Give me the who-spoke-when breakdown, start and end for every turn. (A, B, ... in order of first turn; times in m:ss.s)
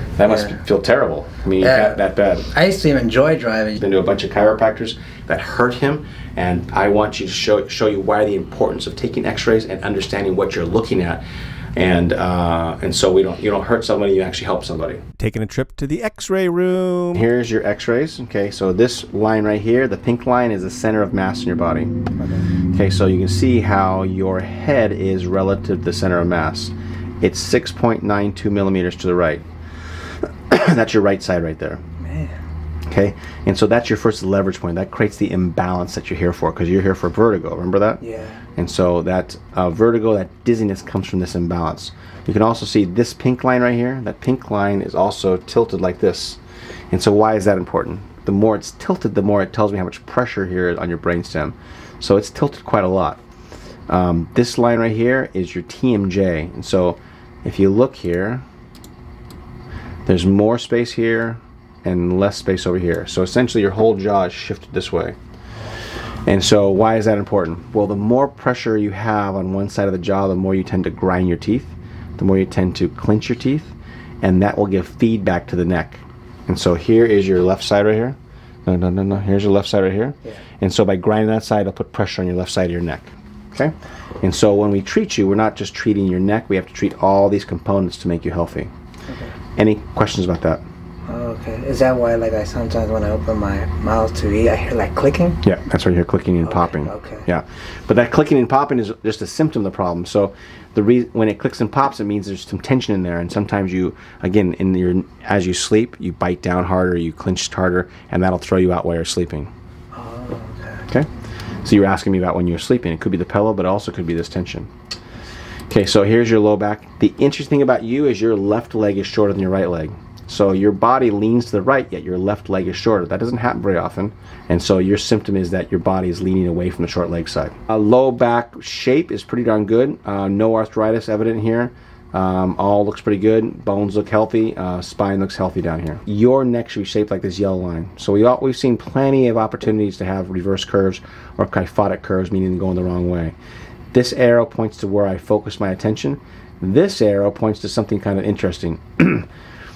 0:00.2-0:02.5 A
0:00.2-0:00.6 B
0:01.6-0:03.8 B
0:03.8-0:11.2 A
0:11.8-0:15.0 A
0:15.2-0:17.2 C
0:17.1-0:21.9 A
0:22.2-0:22.5 B
0:22.7-0:29.4 A
0:30.5-0:31.8 A
0:32.0-0:32.4 B
0:32.9-0:38.0 A
0:38.0-0:38.4 B
0:38.6-0:46.4 A
0:46.9-0:53.2 A
0:53.9-0:58.4 A
1:00.0-1:05.2 A
1:06.2-1:28.7 A
1:29.6-1:30.6 A
1:31.1-1:35.4 B
1:35.4-1:49.5 A
1:36.4-1:37.3 B
1:49.9-1:50.8 B
1:51.6-1:54.7 A
1:55.7-2:23.3 A
2:23.9-2:29.3 A